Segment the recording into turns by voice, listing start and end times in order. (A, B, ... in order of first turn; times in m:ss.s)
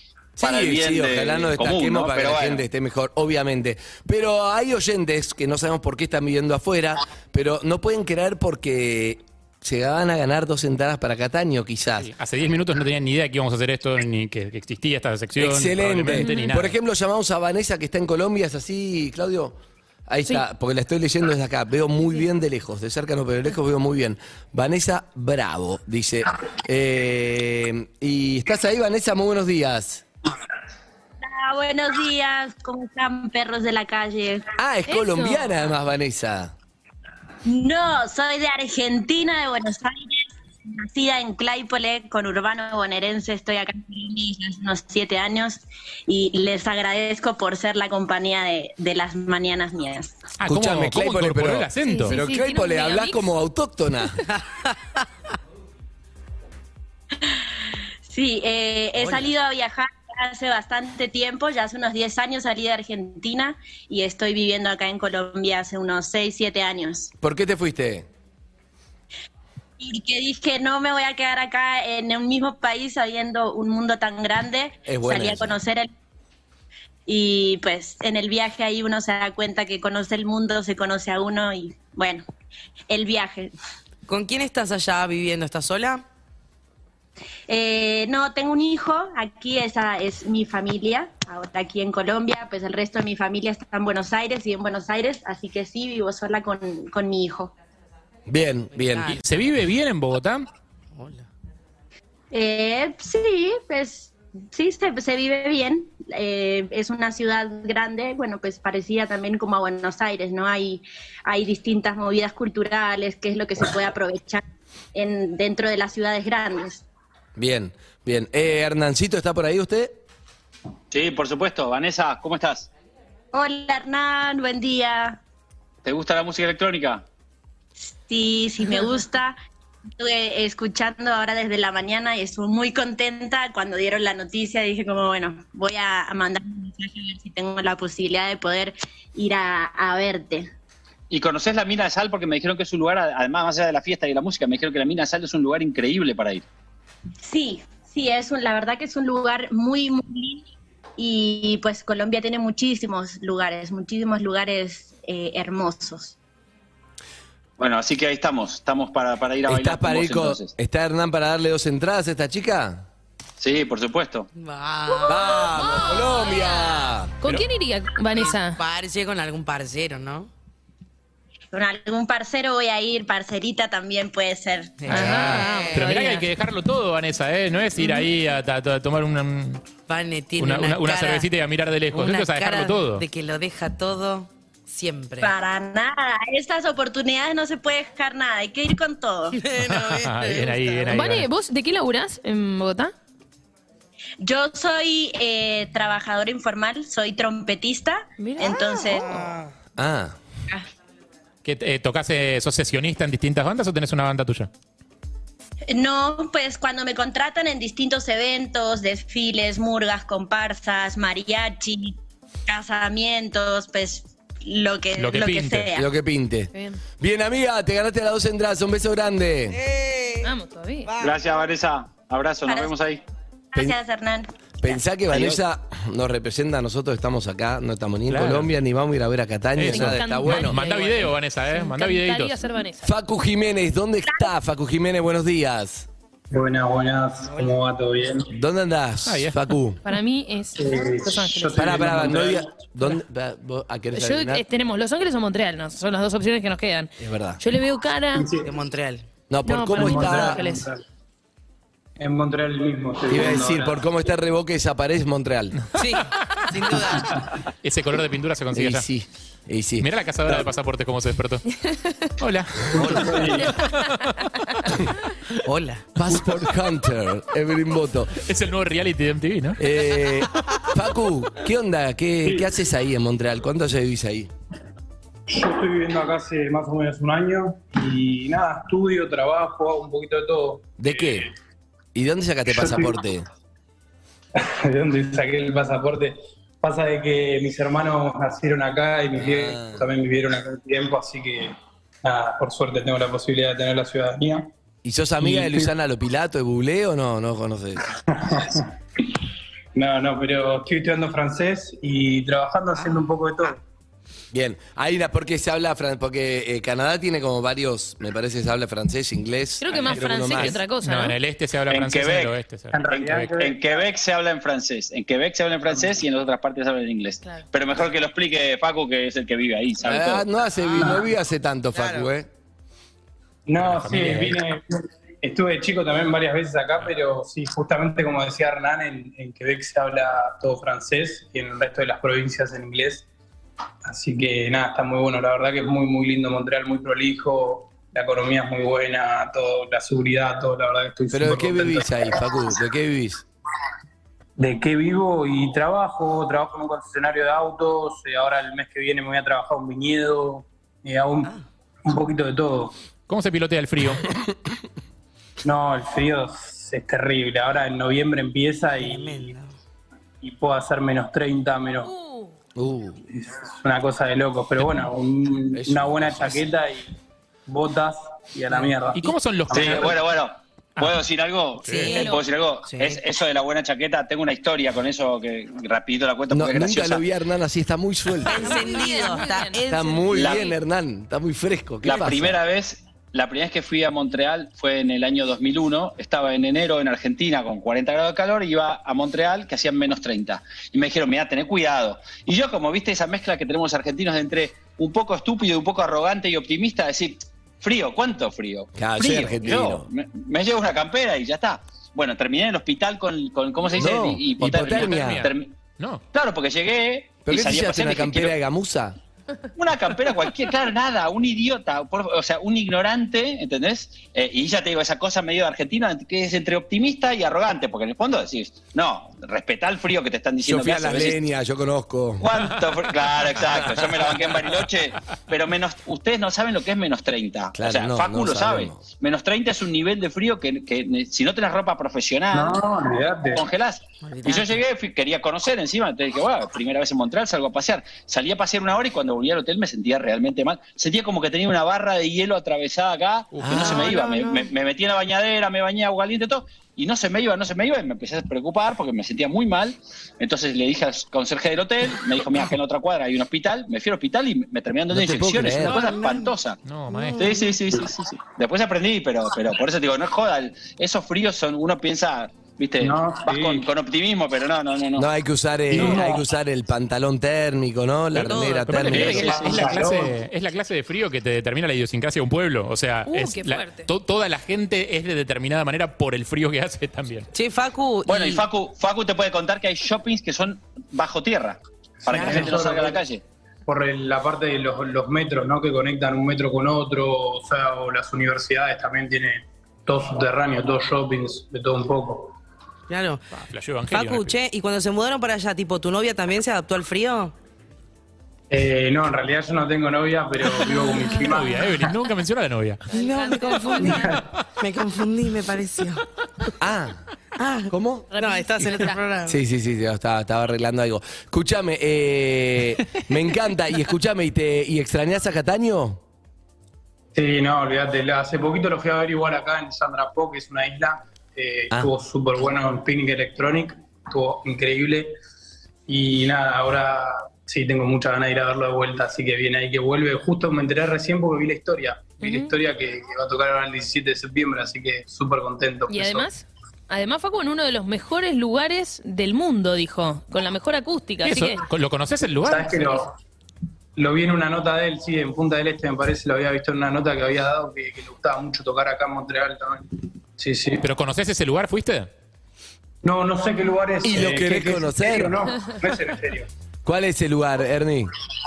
0:00.4-0:12.1 A
0:00.4-0:02.6 B
0:12.0-0:16.7 C
0:15.4-0:19.6 A
0:16.1-0:16.6 D
0:20.1-0:30.0 A
0:31.2-0:34.5 E
0:34.6-0:36.5 A
0:34.9-0:35.5 D
0:37.4-0:50.2 E
0:50.4-0:52.2 C
0:50.4-0:54.2 A
0:51.8-0:53.3 D
0:58.1-1:07.1 E
0:59.0-0:59.3 F
1:07.2-1:08.1 A
1:09.8-1:15.9 E
1:14.9-1:15.6 A
1:17.1-1:22.2 E
1:22.9-1:23.5 E
1:24.1-1:26.0 F
1:27.5-1:37.5 E
1:38.3-1:39.2 A
1:38.8-1:39.4 F
1:39.1-1:40.5 C
1:41.0-1:41.3 F
1:42.3-1:54.4 E
1:55.0-1:56.8 E
1:57.4-2:00.0 A
2:00.9-2:02.7 B
2:03.3-2:05.2 E
2:05.8-2:07.0 B
2:07.8-2:09.4 E
2:10.0-2:20.5 E
2:21.1-2:26.4 B
2:27.2-2:30.4 E
2:31.0-2:36.2 E
2:37.6-2:40.5 B
2:39.5-2:42.9 A
2:43.4-2:44.3 B
2:44.4-2:45.6 F
2:45.1-2:47.2 A
2:45.1-2:46.7 D
2:47.2-2:48.6 D
2:48.2-2:50.3 F
2:51.5-2:54.9 E
2:54.8-2:55.9 F
2:54.9-2:56.3 D
2:54.9-2:59.6 C
2:57.8-2:58.1 D
2:59.9-3:01.3 F
3:00.4-3:03.0 C
3:01.9-3:05.3 F
3:05.2-3:09.4 E
3:09.3-3:10.9 F
3:09.6-3:11.3 C
3:10.9-3:12.9 D
3:14.2-3:19.3 E
3:18.2-3:19.0 D
3:18.6-3:19.5 F
3:19.8-3:20.2 A
3:21.4-3:24.5 C
3:25.7-3:35.9 E
3:35.0-3:35.7 C
3:35.7-3:39.6 A
3:36.5-3:36.8 D
3:39.5-3:40.3 F
3:40.2-3:40.9 D
3:40.8-3:41.3 F
3:41.0-3:43.0 B
3:42.5-3:42.7 E
3:43.5-3:44.3 E
3:44.6-3:50.6 A
3:45.1-3:45.4 B
3:48.1-3:48.5 C
3:49.6-3:52.5 C
3:49.6-3:52.9 D
3:52.8-3:55.9 A
3:56.3-3:58.3 G
3:58.3-3:59.8 A
3:59.0-3:59.4 C
3:59.8-4:01.8 D
4:00.6-4:02.6 G
4:01.6-4:04.4 A
4:03.9-4:08.3 D
4:07.0-4:07.4 A
4:08.1-4:08.5 G
4:08.4-4:09.1 F
4:09.3-4:10.4 A
4:09.4-4:10.7 D
4:09.8-4:10.8 G
4:12.0-4:13.9 G
4:13.1-4:15.6 A
4:15.8-4:17.2 F
4:17.6-4:18.9 C
4:18.5-4:19.9 A
4:19.8-4:21.4 C
4:22.2-4:24.1 C
4:22.7-4:23.6 G
4:22.7-4:23.2 A
4:23.4-4:23.7 D
4:25.4-4:25.9 F
4:26.0-4:28.2 A
4:28.2-4:29.6 C
4:29.6-4:34.3 A
4:35.3-4:41.3 G
4:40.8-4:41.3 A
4:42.0-4:43.3 A
4:42.5-4:43.0 G
4:44.4-4:54.5 G
4:49.2-4:49.9 A
4:54.8-4:57.9 A
4:55.2-4:55.7 G
4:58.1-4:59.2 G
4:59.8-5:03.6 G
5:04.3-5:10.6 A
5:09.6-5:11.2 D
5:09.9-5:13.3 C
5:11.7-5:12.3 B
5:12.7-5:13.8 G
5:12.9-5:20.3 B
5:19.8-5:22.3 A
5:20.6-5:21.0 F
5:20.8-5:21.0 G
5:21.7-5:22.1 F
5:23.5-5:33.1 G
5:23.6-5:24.4 C
5:33.8-5:42.2 G
5:41.1-5:43.2 A
5:44.4-5:51.3 G
5:51.8-5:52.8 G
5:53.1-5:54.1 C
5:55.4-5:59.3 G
5:58.8-5:59.5 F
6:00.2-6:01.9 G
6:01.9-6:02.3 D
6:02.6-6:03.0 A
6:03.1-6:06.9 G
6:05.5-6:06.5 A
6:07.5-6:09.9 G
6:08.9-6:10.0 C
6:09.5-6:17.0 B
6:11.6-6:11.9 C
6:11.6-6:13.0 F
6:11.9-6:12.2 D
6:16.3-6:18.6 A
6:18.2-6:20.4 F
6:18.3-6:19.6 D
6:19.7-6:22.4 A
6:20.1-6:20.5 B
6:21.8-6:45.5 B
6:38.8-6:39.9 A
6:43.8-6:45.3 A
6:44.6-6:46.0 C
6:46.1-6:48.4 B
6:47.3-6:49.0 A
6:49.6-7:01.2 B
7:00.4-7:02.3 A
7:02.2-7:12.6 B
7:03.5-7:04.1 A
7:07.6-7:08.8 A
7:12.3-7:13.4 G
7:13.3-7:36.6 B
7:14.0-7:14.6 F
7:23.4-7:23.7 C
7:23.4-7:23.9 A
7:23.8-7:24.2 F
7:34.9-7:35.8 A
7:35.6-7:36.3 F
7:36.6-7:37.3 C
7:36.9-7:37.2 F
7:37.2-7:45.1 B
7:42.8-7:43.7 G
7:45.0-7:49.4 A
7:45.7-7:46.2 G
7:48.2-7:49.8 F
7:48.7-7:57.3 C
7:48.9-7:49.7 B
7:49.1-7:50.2 G
7:53.1-7:53.9 D
7:57.3-7:58.4 F
7:58.1-8:03.2 B
8:02.0-8:03.0 G
8:02.1-8:02.6 F
8:03.7-8:12.4 G
8:12.9-8:17.4 F
8:13.4-8:14.4 C
8:18.5-8:21.9 G
8:20.7-8:21.7 D
8:21.2-8:22.9 C
8:22.9-8:24.2 D
8:22.9-8:26.0 F
8:23.8-8:24.2 G
8:26.6-8:27.0 A
8:27.4-8:29.4 F
8:27.7-8:28.1 A
8:28.1-8:29.0 D
8:29.3-8:36.0 A
8:37.1-8:45.1 G
8:45.9-8:56.3 G
8:52.2-8:52.6 D
8:55.9-9:01.7 D
9:01.2-9:03.0 C
9:02.4-9:03.2 G
9:04.0-9:10.9 G
9:10.8-9:12.1 C
9:13.0-9:16.5 G
9:14.0-9:15.4 A
9:16.8-9:18.1 A